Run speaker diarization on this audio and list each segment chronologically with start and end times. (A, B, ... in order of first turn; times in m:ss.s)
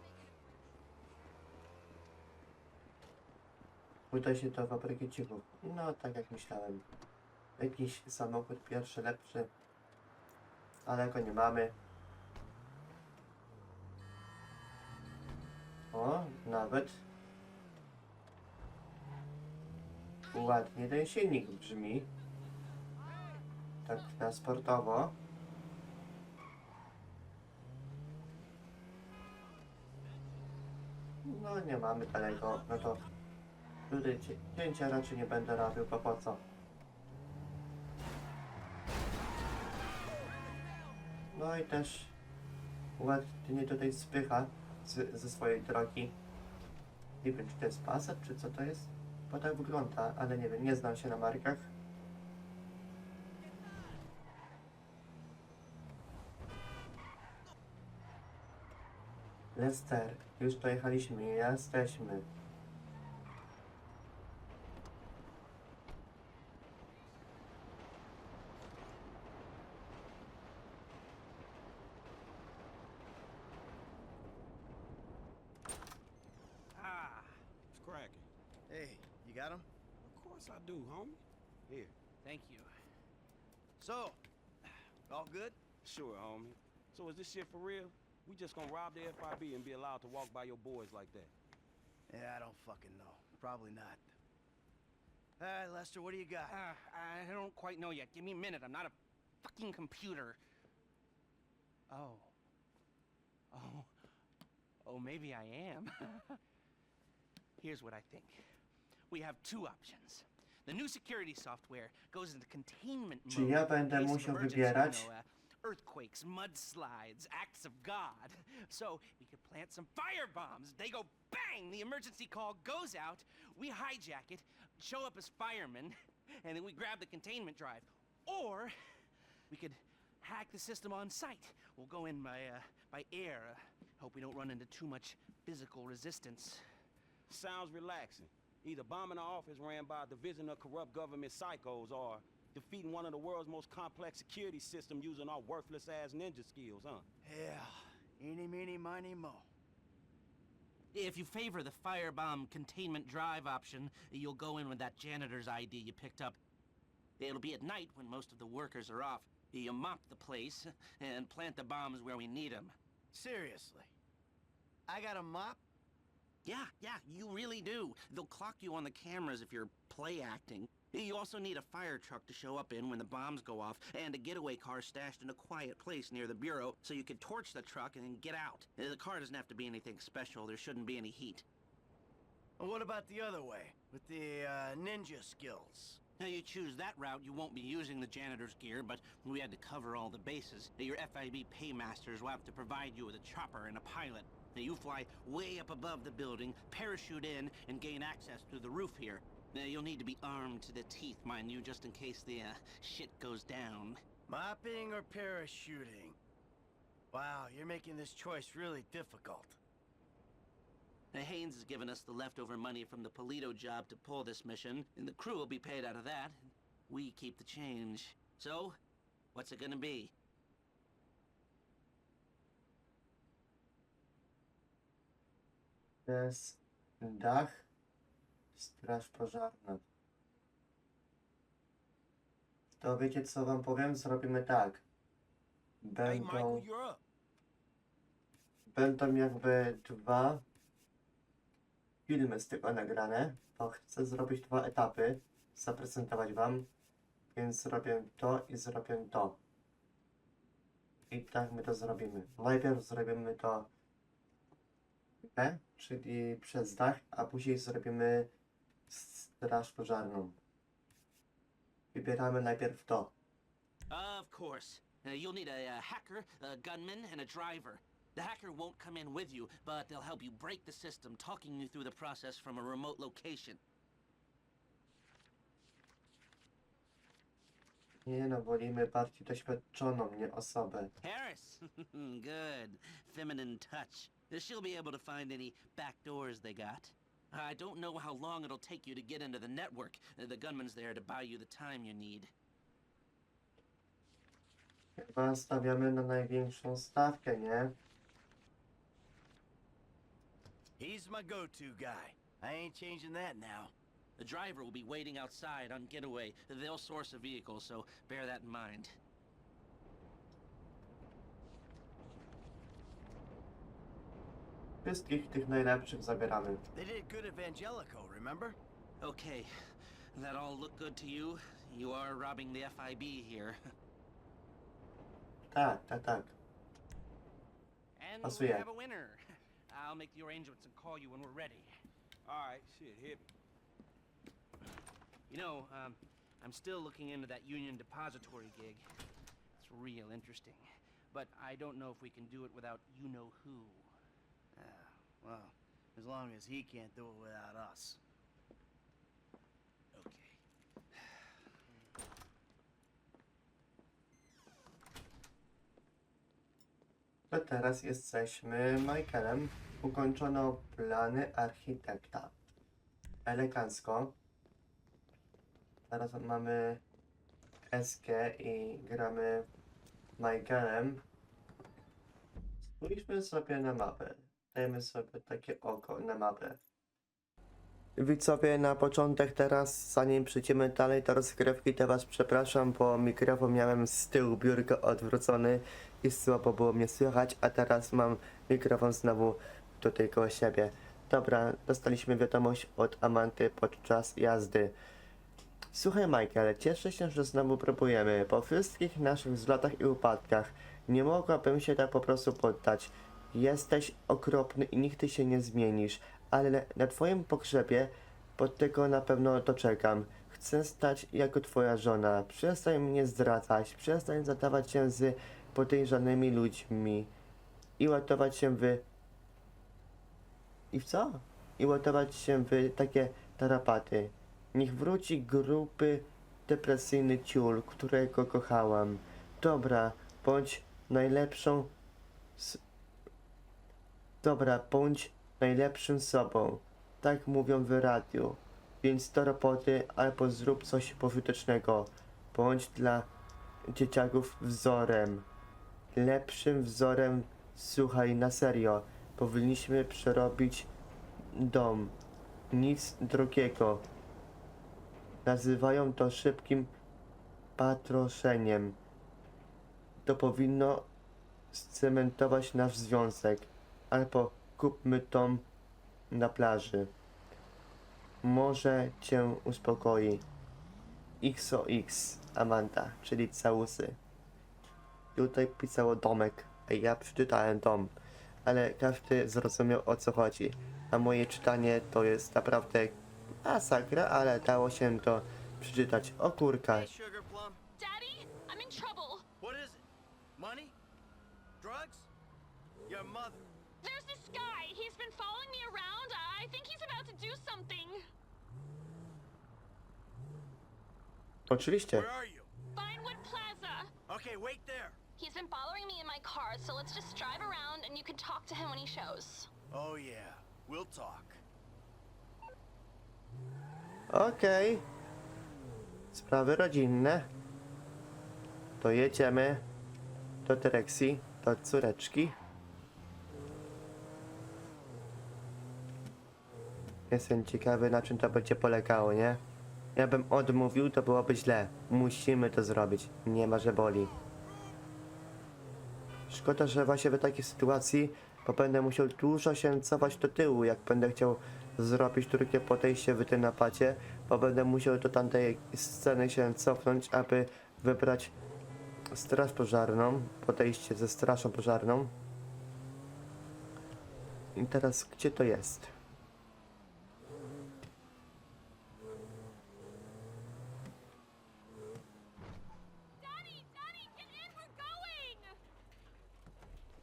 0:04.1-0:06.8 A
0:07.6-0:09.5 A
0:10.8-0:11.8 A
0:15.9-0:17.0 A
0:20.3-0:22.1 A
0:23.8-0:25.2 A
0:31.2-0:33.0 A
0:33.9-0:36.4 A
0:41.3-0:42.2 A
0:43.0-0:46.2 A
0:47.2-0:51.7 A
0:59.5-1:02.3 A
1:16.8-1:17.4 B
1:17.7-1:18.3 C
1:18.7-1:19.7 D
1:20.0-1:21.9 C
1:22.2-1:22.7 B
1:23.8-1:24.2 D
1:25.1-1:25.6 D
1:25.8-1:31.3 C
1:32.1-1:34.1 D
1:35.4-1:36.6 D
1:36.5-1:40.4 B
1:41.9-1:42.3 B
1:43.5-1:43.9 B
1:44.8-1:46.4 B
1:47.6-1:48.4 B
1:49.1-2:08.7 B
1:53.3-1:55.1 A
2:09.5-2:16.6 B
2:17.3-2:27.1 C
2:27.2-2:29.5 D
2:30.9-2:36.4 B
2:37.2-2:42.8 B
2:43.1-2:43.9 D
2:44.9-2:45.6 D
2:46.4-3:01.4 B
3:02.6-3:06.0 D
3:06.2-3:24.0 B
3:24.3-3:26.2 D
3:27.1-3:29.6 D
3:31.1-3:38.8 B
3:39.3-3:40.1 B
3:46.1-3:47.7 A
3:48.6-3:49.8 A
3:52.8-3:54.8 A
3:55.8-3:56.7 A
3:56.0-3:57.0 C
3:58.7-4:00.4 A
4:02.1-4:06.7 A
4:07.3-4:09.4 A
4:11.1-4:13.7 A
4:15.2-4:18.3 A
4:18.9-4:20.4 A
4:21.9-4:23.1 A
4:23.9-4:33.6 B
4:38.1-4:40.9 A
4:41.0-4:52.3 B
4:55.0-4:57.8 A
5:00.8-5:03.7 D
5:04.2-5:09.0 B
5:14.8-5:16.6 A
5:16.7-5:18.6 D
5:19.0-5:19.5 B
5:20.2-5:23.6 B
5:25.5-5:26.4 A
5:28.0-5:29.2 B
5:28.2-5:28.6 A
5:29.7-5:31.7 B
5:32.2-5:33.3 C
5:35.3-5:38.8 B
5:39.6-5:43.9 B
5:44.6-5:48.0 D
5:50.0-5:50.4 B
5:57.3-6:02.4 A
6:03.2-6:04.2 A
6:05.9-6:06.8 A
6:07.7-6:09.5 A
6:10.2-6:11.0 A
6:12.7-6:16.6 A
6:18.0-6:34.8 A
6:35.7-6:57.1 A
6:57.8-6:58.9 A
7:00.7-7:11.7 A
7:12.4-7:12.6 A
7:14.2-7:23.1 A
7:23.7-7:25.3 A
7:26.0-7:30.7 A
7:31.3-7:32.0 A
7:32.5-7:33.9 A
7:35.2-7:36.7 A
7:37.6-7:38.8 A
7:40.0-7:40.9 A
7:41.5-7:45.5 A
7:46.1-7:46.9 A
7:48.2-7:50.2 A
7:51.2-7:54.0 A
7:55.2-7:57.9 A
7:58.5-8:06.9 A
8:06.7-8:07.6 D
8:07.8-8:09.2 E
8:09.4-8:09.9 D
8:10.4-8:10.8 D
8:11.6-8:12.1 D
8:12.9-8:13.4 D
8:13.8-8:18.0 E
8:21.5-8:22.1 A
8:21.9-8:22.5 D
8:22.8-8:23.9 E
8:24.1-8:25.0 D
8:25.2-8:29.5 E
8:29.7-8:31.4 D
8:34.1-8:34.9 A
8:36.1-8:37.3 A
8:38.8-8:39.7 A
8:40.4-8:42.4 A
8:47.1-8:49.4 A
8:50.0-8:54.1 A
8:56.3-9:08.4 A
9:09.1-9:12.1 A
9:14.6-9:15.9 A
9:23.2-9:25.6 E